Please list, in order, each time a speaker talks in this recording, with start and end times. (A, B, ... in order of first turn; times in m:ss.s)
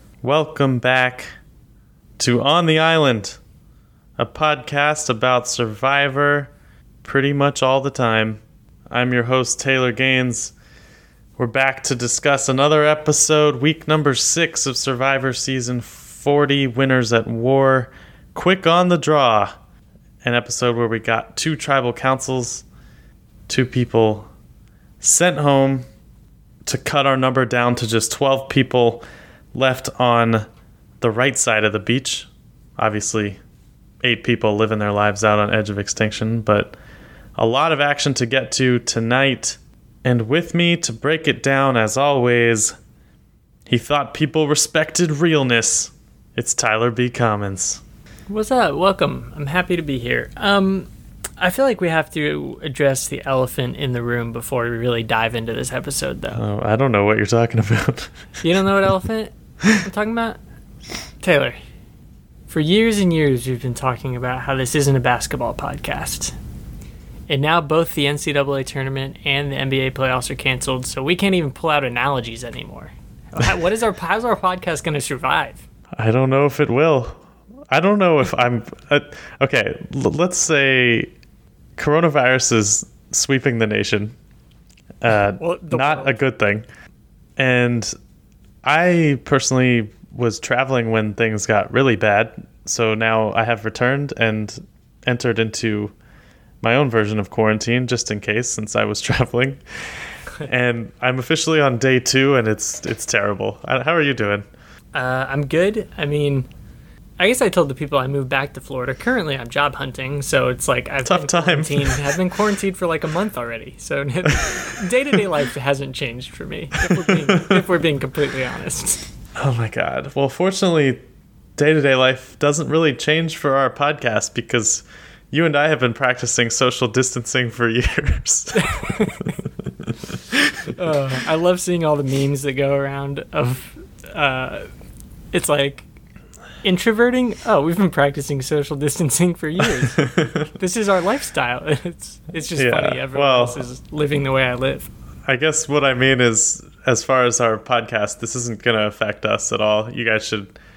0:00.2-0:01.3 A
0:02.2-0:03.4 A
0:04.2-0:06.5 A
0:07.0-0:10.5 A
0:11.4-0:19.5 A
0:20.2-0:22.6 A
0:23.5-0:24.3 A
0:25.0-0:25.9 A
0:26.6-0:29.0 A
0:29.5-0:30.5 A
0:31.0-0:33.4 A
0:34.0-0:36.7 A
0:37.4-0:42.8 A
0:43.7-0:47.8 A
0:48.3-0:50.9 B
0:51.4-0:56.4 B
0:56.3-0:58.2 A
0:58.4-1:00.4 B
1:01.2-1:01.6 B
1:02.5-1:06.3 B
1:07.3-1:15.6 B
1:15.9-1:21.1 A
1:21.8-1:24.1 A
1:25.0-1:26.7 A
1:25.4-1:26.1 B
1:27.4-1:27.9 A
1:28.6-1:35.9 A
1:36.6-1:39.6 A
1:40.4-1:44.4 A
1:44.9-1:46.5 B
1:47.2-1:59.1 B
1:51.0-1:52.2 A
1:59.4-2:01.0 A
2:01.6-2:09.1 A
2:08.6-2:09.3 B
2:09.9-2:10.7 A
2:10.7-2:14.7 B
2:15.3-2:15.8 B
2:16.6-2:24.9 B
2:20.0-2:20.3 A
2:22.6-2:23.6 A
2:25.2-2:30.5 A